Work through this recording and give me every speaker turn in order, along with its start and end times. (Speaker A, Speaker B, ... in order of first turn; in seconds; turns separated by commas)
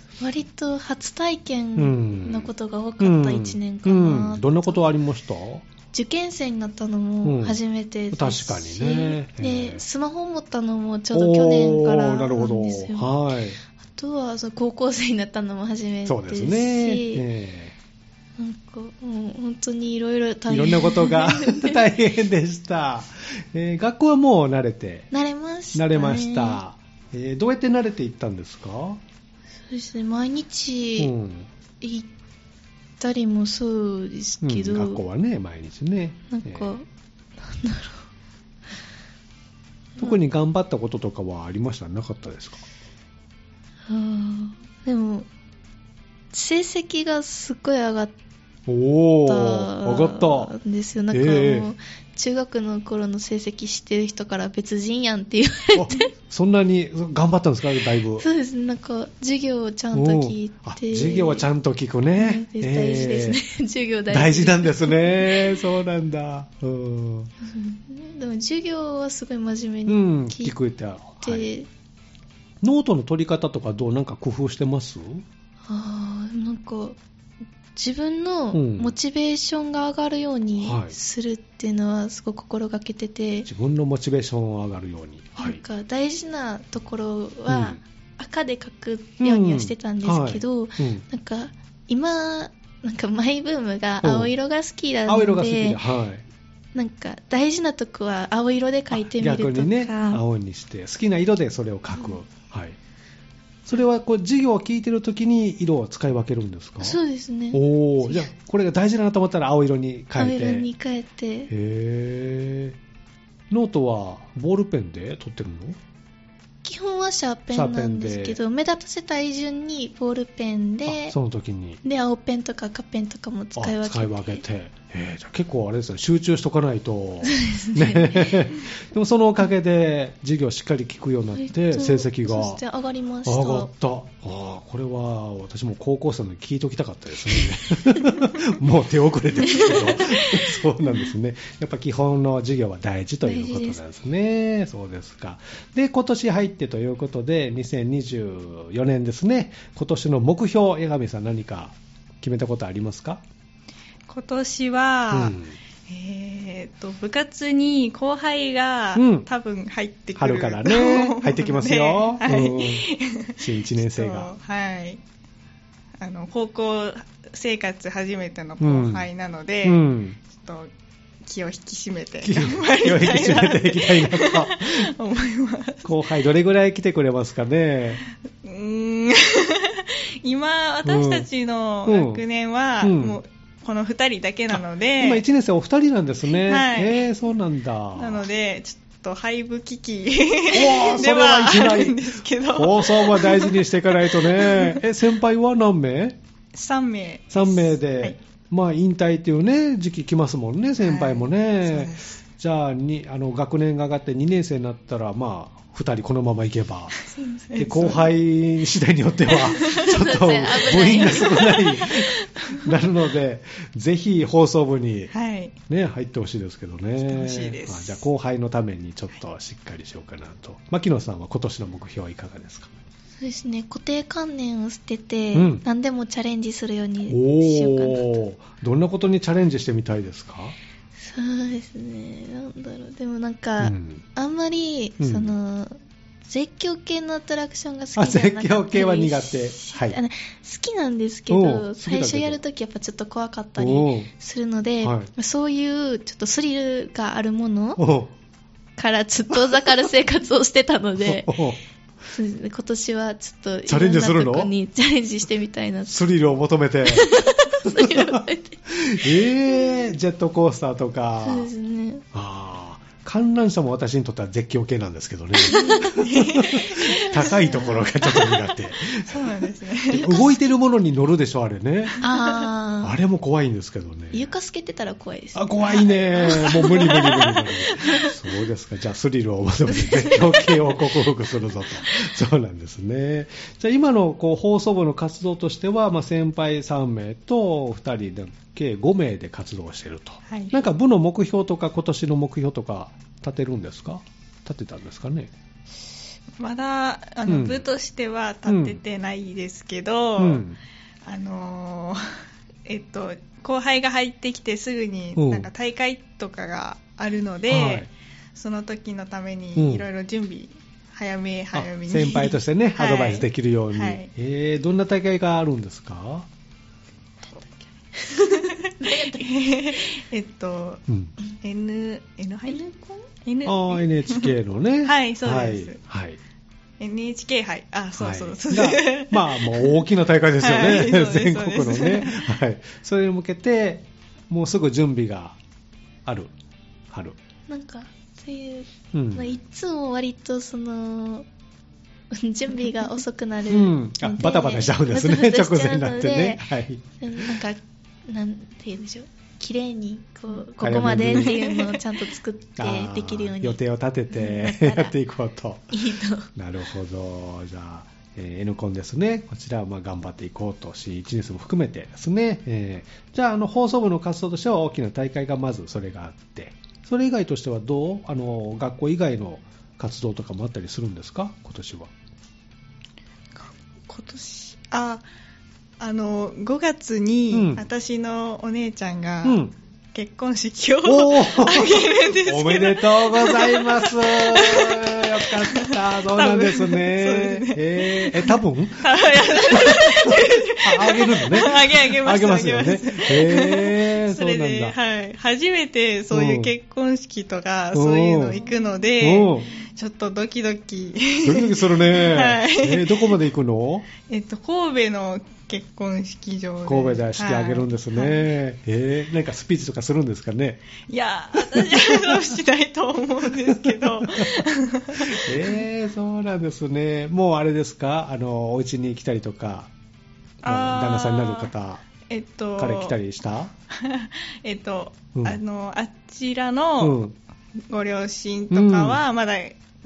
Speaker A: 0.2-4.8, Speaker B: 1.8-5.7, Speaker A: 5.9-13.1, Speaker B: 7.2-7.6, Speaker B: 8.1-9.8, Speaker B: 11.1-13.6, Speaker A: 13.8-17.3, Speaker B: 16.1-17.8, Speaker A: 18.4-21.8, Speaker B: 20.5-25.1, Speaker A: 25.1-26.6, Speaker B: 25.7-29.0, Speaker A: 29.7-31.1, Speaker B: 31.0-31.5, Speaker A: 31.8-32.1, Speaker A: 33.0-35.0, Speaker B: 34.4-36.7, Speaker A: 36.3-36.9, Speaker A: 37.4-38.1, Speaker B: 40.0-42.6, Speaker A: 43.9-45.3, Speaker A: 46.3-48.1, Speaker B: 48.7-50.5, Speaker A: 49.3-56.1, Speaker B: 51.1-51.7, Speaker B: 55.8-58.3, Speaker A: 58.2-61.5, Speaker B: 59.9-63.4, Speaker A: 62.2-65.6, Speaker B: 64.1-67.3, Speaker A: 67.4-70.5, Speaker B: 69.9-71.5, Speaker A: 71.2-71.7, Speaker B: 72.6-75.2, Speaker A: 75.7-77.0, Speaker A: 77.8-83.5, Speaker B: 78.5-79.0, Speaker B: 80.6-81.0, Speaker B: 83.5-85.6, Speaker A: 85.4-95.8, Speaker B: 87.5-87.8, Speaker B: 89.2-91.0, Speaker B: 94.0-94.3, Speaker B: 95.1-96.2, Speaker A: 96.7-100.2, Speaker B: 98.9-102.8, Speaker B: 103.7-107.0, Speaker A: 106.8-108.3, Speaker B: 107.5-110.7, Speaker A: 110.2-111.5, Speaker B: 111.5-112.8, Speaker B: 113.5-115.8, Speaker A: 116.6-121.2, Speaker B: 117.5-118.4, Speaker B: 120.9-121.8, Speaker A: 121.8-124.4, Speaker B: 123.6-132.6, Speaker A: 127.2-128.6, Speaker A: 131.4-133.7, Speaker B: 133.2-153.2, Speaker A: 139.4-140.5, Speaker A: 143.2-143.8, Speaker C: 154.1-155.4, Speaker B: 155.1-155.6, Speaker C: 155.9-165.0, Speaker B: 159.0-159.3, Speaker B: 160.2-162.9, Speaker B: 163.4-164.3, Speaker C: 166.0-170.7, Speaker B: 168.6-169.1, Speaker B: 169.6-170.2, Speaker C: 171.2-175.9, Speaker B: 172.2-174.9, Speaker B: 175.8-178.0, Speaker C: 178.4-185.2, Speaker B: 180.8-181.3, Speaker B: 181.9-182.2, Speaker B: 182.8-183.2, Speaker B: 184.5-188.3, Speaker C: 186.4-187.1, Speaker C: 188.0-194.8, Speaker B: 190.5-192.0, Speaker B: 192.5-196.2, Speaker C: 196.5-198.2, Speaker B: 197.3-207.0, Speaker C: 200.8-202.2, Speaker C: 207.1-208.1, Speaker B: 207.6-215.1, Speaker A: 209.3-211.8, Speaker C: 209.3-209.9, Speaker C: 211.2-212.8, Speaker C: 215.1-215.6, Speaker B: 215.7-222.7, Speaker C: 217.1-218.0, Speaker A: 223.2-228.2, Speaker B: 225.3-225.6, Speaker B: 227.1-230.6, Speaker A: 231.0-235.8, Speaker B: 233.6-234.0, Speaker B: 235.0-235.3, Speaker A: 236.3-247.8, Speaker B: 238.0-240.0, Speaker B: 241.3-242.4, Speaker B: 243.6-244.1, Speaker B: 244.8-245.1, Speaker B: 247.8-248.1, Speaker A: 248.8-251.4, Speaker B: 249.3-249.6, Speaker B: 251.0-251.6, Speaker A: 252.1-256.0, Speaker B: 253.7-254.5, Speaker B: 255.9-261.5, Speaker A: 256.9-259.9, Speaker A: 261.2-262.0, Speaker B: 262.1-271.9, Speaker A: 265.4-266.0, Speaker C: 266.0-268.4, Speaker A: 266.7-267.8, Speaker C: 269.1-270.0, Speaker A: 269.9-270.4, Speaker C: 271.9-272.4, Speaker A: 272.0-272.9, Speaker B: 272.8-274.3, Speaker A: 274.1-276.9, Speaker B: 275.4-295.3, Speaker C: 275.7-277.9, Speaker A: 277.9-278.1, Speaker A: 279.7-280.9, Speaker A: 281.8-282.1, Speaker C: 290.3-290.6, Speaker C: 296.4-300.4, Speaker B: 297.3-297.6, Speaker B: 298.5-298.8, Speaker B: 300.2-300.6, Speaker C: 301.1-302.0, Speaker C: 302.7-314.1, Speaker B: 305.2-305.5, Speaker B: 307.5-307.9, Speaker B: 309.6-309.9, Speaker B: 311.5-316.3, Speaker A: 318.0-319.9, Speaker C: 318.1-320.8, Speaker B: 320.9-321.1, Speaker C: 321.4-322.6, Speaker A: 322.5-323.1, Speaker C: 323.2-325.8, Speaker B: 323.4-326.2, Speaker C: 326.8-329.8, Speaker B: 328.0-335.4, Speaker C: 330.4-332.3, Speaker B: 336.1-336.3, Speaker B: 336.9-337.2, Speaker A: 337.5-341.3, Speaker B: 338.9-339.4, Speaker A: 342.1-346.5, Speaker B: 343.5-347.3, Speaker A: 347.0-353.6, Speaker B: 350.6-351.4, Speaker C: 351.1-351.8, Speaker B: 352.6-355.8, Speaker A: 354.1-354.9, Speaker A: 355.7-356.3, Speaker B: 356.4-371.9, Speaker C: 373.4-375.0, Speaker C: 375.8-379.4, Speaker B: 377.3-377.7, Speaker B: 379.2-379.5, Speaker C: 379.9-403.2, Speaker B: 380.9-394.8, Speaker B: 396.1-396.5, Speaker B: 397.7-398.4, Speaker B: 399.0-399.5, Speaker B: 401.2-403.9, Speaker C: 404.1-408.3, Speaker B: 406.6-410.6, Speaker C: 410.9-415.6, Speaker B: 411.4-412.2, Speaker B: 413.5-414.4, Speaker B: 414.9-419.7, Speaker C: 420.4-421.5, Speaker B: 420.4-421.9, Speaker C: 422.1-423.0, Speaker B: 422.6-423.5, Speaker C: 423.7-427.0, Speaker B: 425.1-425.4, Speaker B: 426.8-427.1, Speaker C: 427.7-429.6, Speaker B: 428.5-429.0